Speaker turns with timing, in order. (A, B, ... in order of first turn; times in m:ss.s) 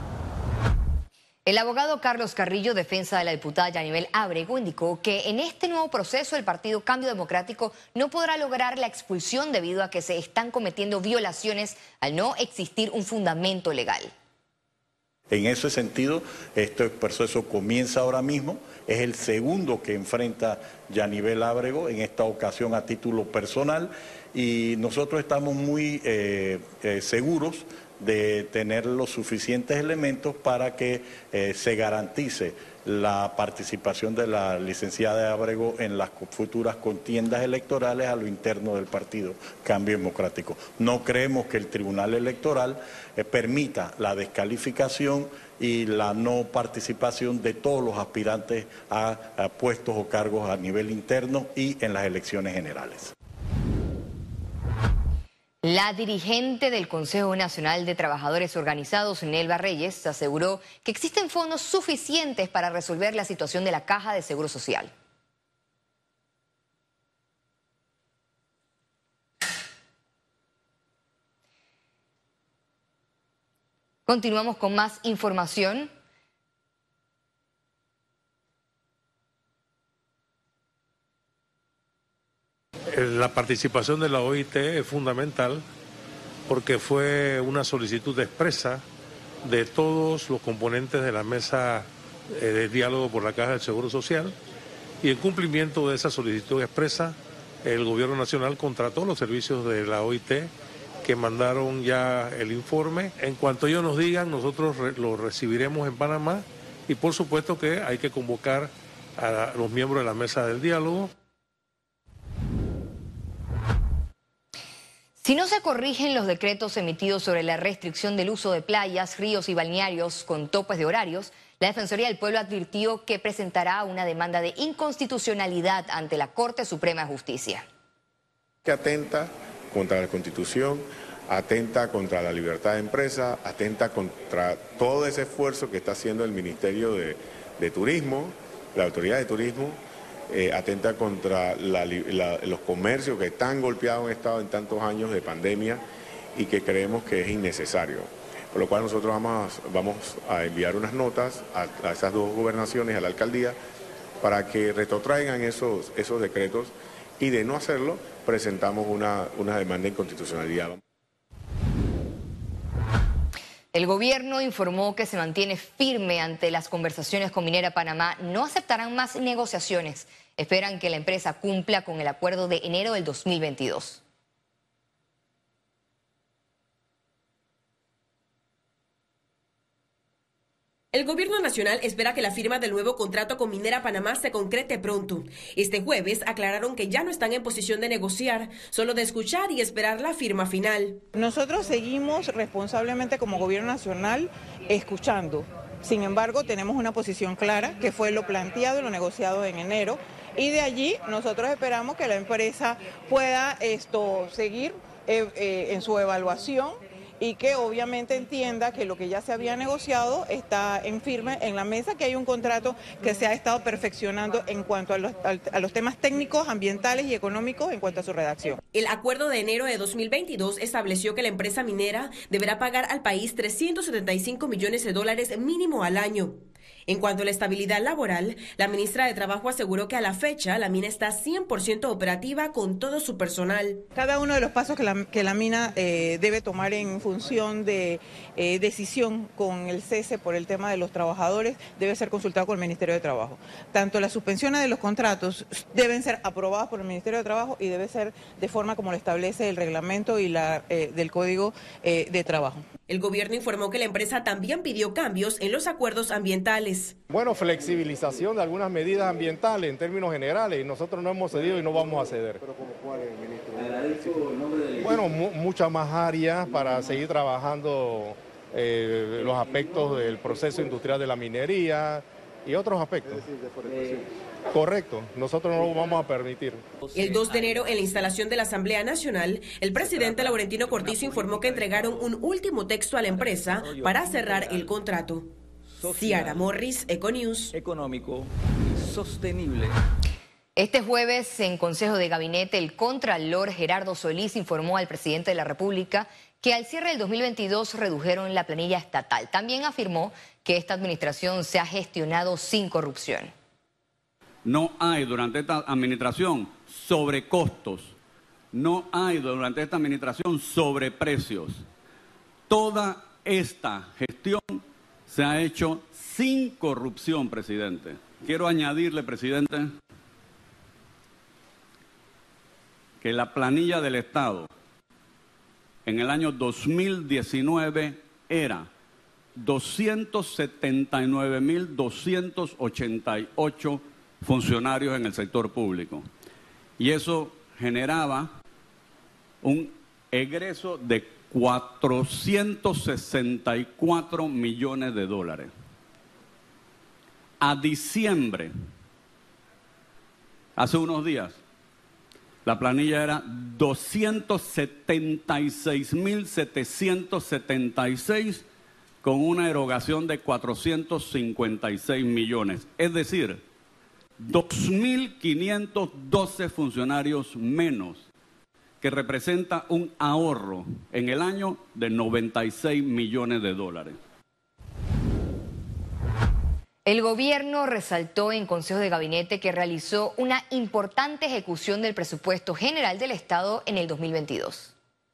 0:01.5-0:14.1 A
0:15.3-0:53.1 B
0:55.6-1:04.9 A
1:14.1-1:15.9 A
1:22.9-1:25.6 C
1:26.5-1:28.8 C
1:29.4-1:34.4 C
1:35.0-1:40.5 C
1:41.0-1:51.1 C
1:55.2-2:07.6 A
2:08.6-2:25.8 D
2:26.4-2:33.6 D
2:34.2-2:40.8 D
2:43.7-2:54.0 A
3:00.9-3:11.0 E
3:11.2-3:38.6 F
3:38.7-3:53.9 E
3:54.0-4:12.6 F
4:12.9-4:17.0 E
4:17.1-4:22.4 G
4:23.9-4:24.9 H
4:24.8-4:33.3 G
4:34.5-4:36.6 G
4:36.9-4:45.3 E
4:37.0-4:37.9 H
4:40.2-4:42.1 H
4:43.1-4:44.7 H
4:45.7-4:46.6 H
4:45.8-4:47.5 E
4:47.5-4:49.8 H
4:50.6-5:03.3 A
5:04.4-5:08.0 I
5:08.5-5:11.7 I
5:12.5-5:19.8 I
5:23.0-5:24.5 I
5:25.8-5:28.7 I
5:29.4-5:36.1 I
5:36.8-5:38.3 I
5:39.4-5:45.5 I
5:47.4-5:48.5 I
5:50.6-5:51.4 I
5:52.4-5:58.5 I
5:59.0-6:03.4 I
6:04.2-6:08.1 I
6:08.8-6:14.0 I
6:16.9-6:24.7 A